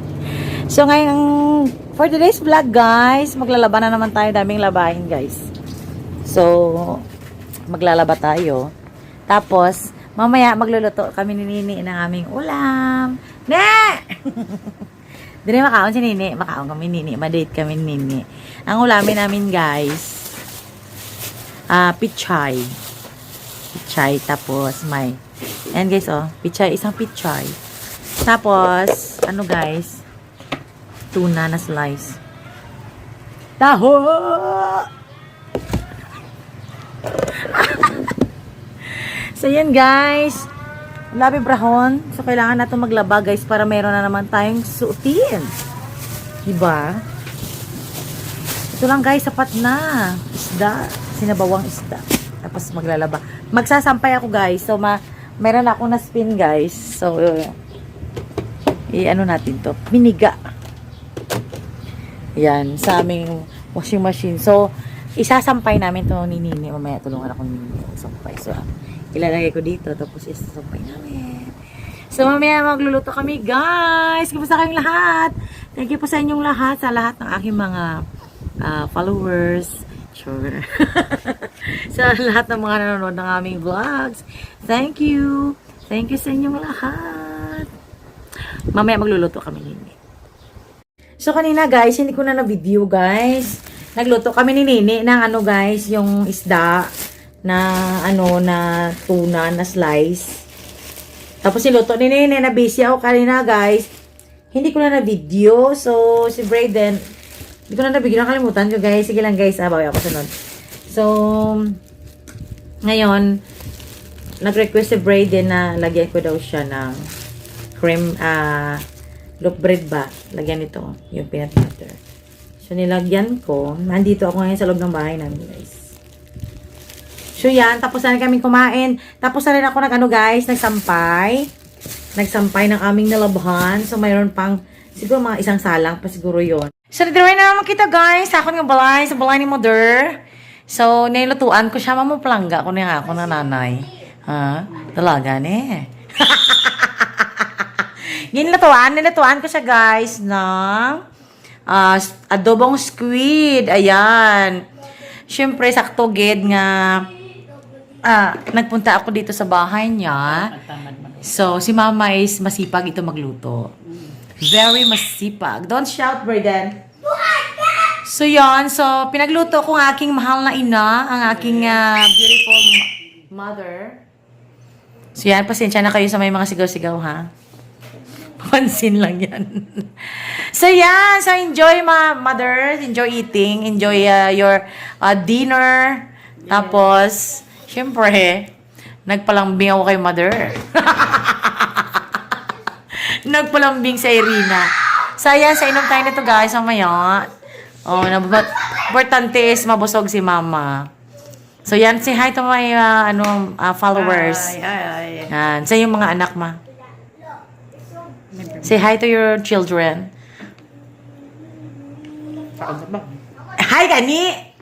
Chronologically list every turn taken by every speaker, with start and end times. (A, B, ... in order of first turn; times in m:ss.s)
0:00.7-0:05.5 A
0:06.2-0:07.0 A
0:07.7-0:08.7 A
0:09.3-0:14.8 A
0:15.4-0:20.4 A
0:21.7-0:22.8 A
0:23.7-0:25.2 A
0:25.7-0:27.6 A
0:28.2-0:30.0 A
0:31.1-0:32.2 A
0:33.6-0:34.9 A
0:37.3-0:38.1 A
0:38.9-0:40.5 A
0:41.1-0:45.5 A
0:46.4-0:47.0 A
0:48.7-0:57.6 A
0:58.9-1:00.4 A
1:02.4-1:11.5 A
1:12.1-1:18.0 A
1:18.6-1:27.7 A
1:28.7-1:30.0 A
1:31.2-1:36.9 A
1:37.4-1:40.4 A
1:41.4-1:43.9 A
1:44.5-1:47.0 A
1:47.7-1:50.3 A
1:50.9-1:51.8 A
1:52.8-1:53.4 A
1:54.4-1:57.1 A
1:57.8-1:58.8 A
1:59.4-2:02.0 A
2:02.6-2:05.8 A
2:07.4-2:11.5 A
2:12.2-2:31.0 A
2:31.7-2:34.6 A
2:35.3-2:37.1 A
2:38.0-2:40.6 A
2:40.5-2:41.2 B
2:41.1-2:43.7 A
2:44.4-2:46.8 A
2:47.4-2:54.0 A
2:55.1-2:57.3 A
2:58.2-3:08.5 A
3:09.1-3:12.2 A
3:12.9-3:17.3 A
3:17.8-3:20.9 A
3:21.6-3:24.6 A
3:23.9-3:25.3 B
3:25.3-3:26.6 A
3:28.3-3:28.7 B
3:28.6-3:30.1 A
3:32.4-3:33.2 B
3:33.5-3:34.4 A